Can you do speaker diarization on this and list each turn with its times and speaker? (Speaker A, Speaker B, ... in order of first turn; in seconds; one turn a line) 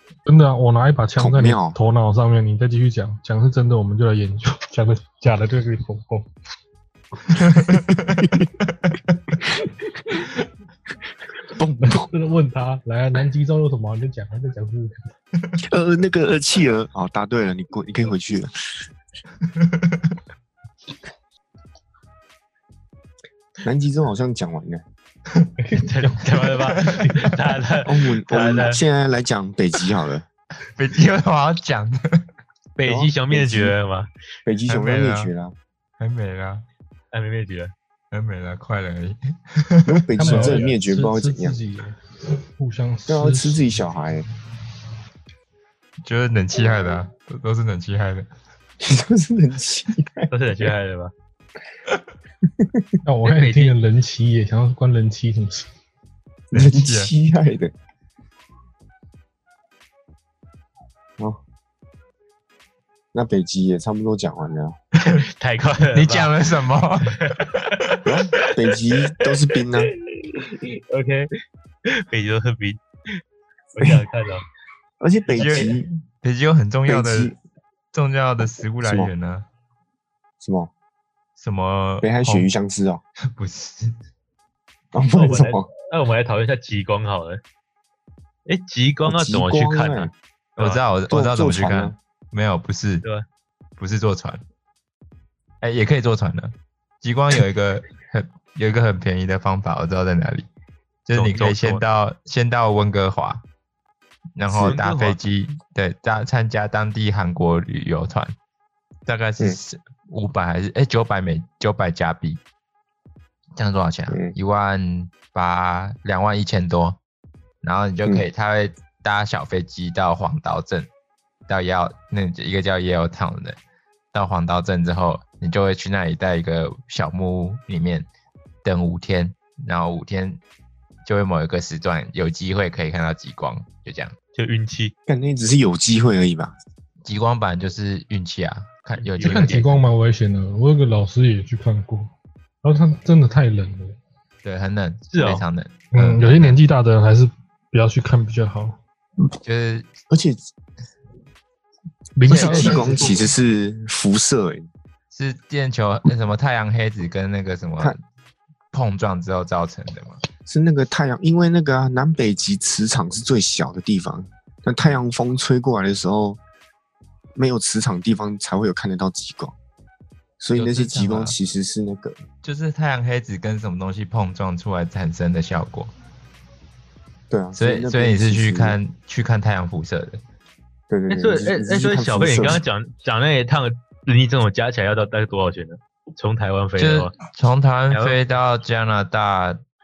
Speaker A: 0.2-6.3
Speaker B: 1.2-1.8
Speaker C: 7.4-9.2
Speaker B: 8.0-8.5
Speaker B: 11.4-12.1
Speaker A: 11.8-15.1
Speaker B: 15.6-18.5
Speaker C: 19.4-20.2
Speaker B: 23.6-24.8
Speaker A: 25.6-26.5
Speaker D: 25.8-28.8
Speaker B: 27.8-30.2
Speaker C: 30.7-32.3
Speaker D: 32.8-34.1
Speaker B: 32.8-33.7
Speaker B: 34.4-35.5
Speaker C: 34.7-35.3
Speaker C: 36.0-36.6
Speaker D: 37.1-37.7
Speaker C: 38.1-40.6
Speaker B: 39.9-41.6
Speaker A: 40.2-42.0
Speaker A: 42.5-43.8
Speaker B: 43.1-44.2
Speaker C: 46.0-48.3
Speaker B: 48.8-50.3
Speaker D: 50.3-51.1
Speaker B: 52.6-52.9
Speaker A: 53.0-55.7
Speaker D: 53.2-53.8
Speaker B: 56.5-57.7
Speaker C: 56.5-57.1
Speaker B: 63.1-64.8
Speaker D: 65.1-66.3
Speaker C: 65.9-67.5
Speaker D: 67.1-68.5
Speaker B: 68.0-69.9
Speaker D: 69.8-71.3
Speaker D: 71.9-73.2
Speaker D: 73.7-74.4
Speaker B: 75.0-75.9
Speaker C: 75.3-77.3
Speaker B: 76.9-77.4
Speaker C: 77.9-79.5
Speaker B: 78.8-79.1
Speaker B: 80.4-80.7
Speaker C: 81.4-82.5
Speaker B: 82.0-83.0
Speaker C: 83.3-84.0
Speaker B: 84.9-85.7
Speaker D: 85.1-87.4
Speaker D: 88.5-90.8
Speaker B: 89.0-90.1
Speaker C: 90.6-93.0
Speaker B: 91.1-92.0
Speaker C: 93.8-94.4
Speaker C: 95.6-100.5
Speaker C: 101.1-103.4
Speaker D: 101.1-101.8
Speaker C: 104.4-108.3
Speaker B: 104.5-104.8
Speaker D: 104.6-105.2
Speaker C: 109.0-112.4
Speaker C: 113.5-117.0
Speaker B: 114.1-114.3
Speaker C: 117.6-120.9
Speaker C: 121.5-123.6
Speaker C: 124.1-128.1
Speaker C: 128.6-130.4
Speaker C: 131.0-134.1
Speaker D: 134.3-134.9
Speaker B: 135.1-136.5
Speaker C: 137.0-139.8
Speaker D: 139.0-139.7
Speaker A: 139.2-142.1
Speaker A: 142.6-144.0
Speaker C: 144.4-146.6
Speaker D: 145.1-145.4
Speaker A: 145.9-148.8
Speaker C: 149.4-149.9
Speaker B: 150.1-150.4
Speaker A: 152.2-153.3
Speaker B: 152.2-154.7
Speaker C: 152.2-153.0
Speaker C: 155.1-158.0
Speaker C: 158.7-160.2
Speaker B: 160.4-166.4
Speaker B: 167.3-169.5
Speaker B: 170.4-172.2
Speaker C: 170.5-171.3
Speaker C: 172.4-175.9
Speaker B: 177.3-178.8
Speaker C: 177.5-180.2
Speaker B: 180.9-182.6
Speaker D: 181.1-187.1
Speaker C: 186.8-189.6
Speaker D: 187.9-188.2